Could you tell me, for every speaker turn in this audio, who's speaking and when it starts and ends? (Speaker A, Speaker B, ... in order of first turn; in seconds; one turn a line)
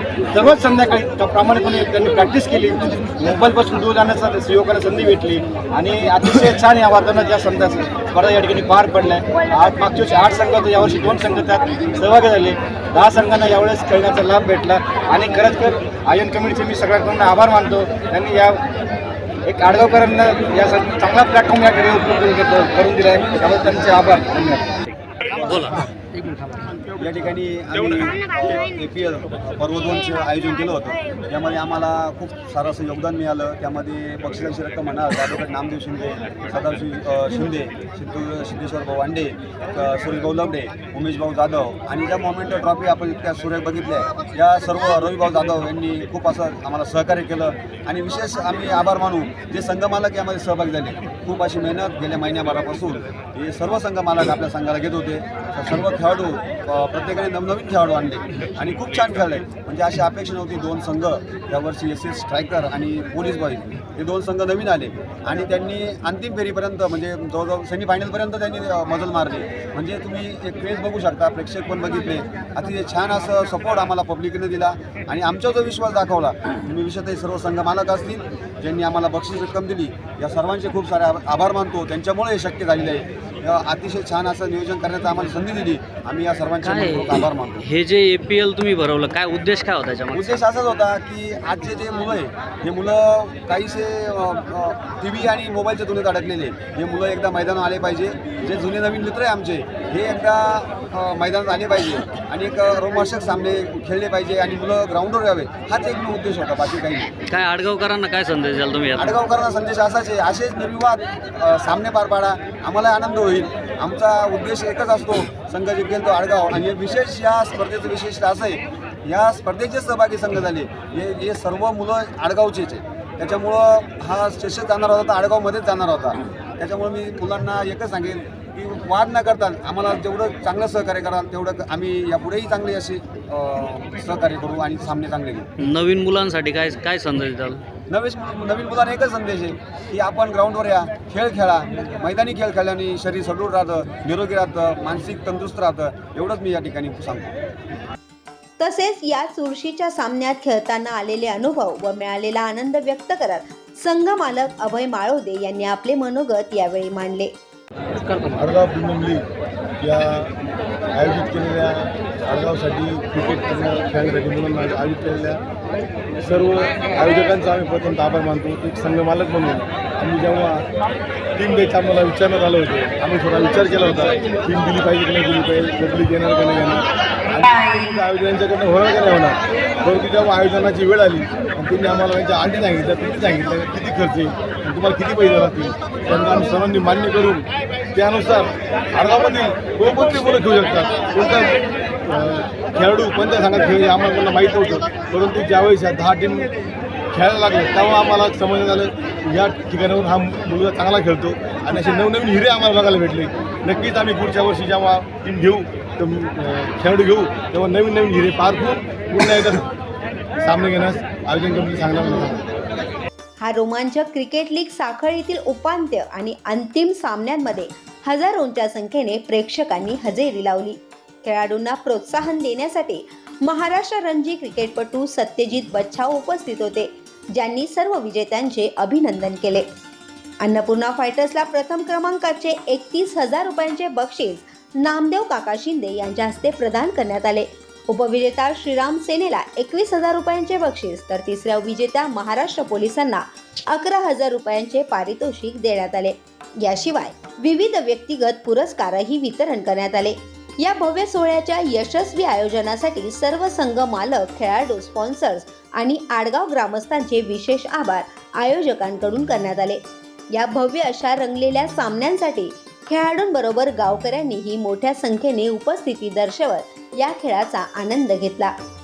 Speaker A: 0.3-18.6
Speaker A: 19.4-24.6
Speaker B: 25.3-25.8
Speaker C: 27.0-87.6
Speaker B: 86.6-90.4
Speaker C: 90.1-107.1
Speaker B: 107.3-109.2
Speaker C: 109.0-135.5
Speaker B: 135.6-137.6
Speaker C: 137.9-147.3
Speaker D: 148.6-157.3
Speaker E: 158.2-159.2
Speaker E: 159.8-160.3
Speaker E: 160.9-165.4
Speaker E: 166.2-170.6
Speaker E: 171.4-196.5
Speaker E: 197.1-209.7
Speaker E: 210.4-212.4
Speaker D: 213.4-229.7
Speaker D: 230.4-259.8
Speaker D: 260.3-268.5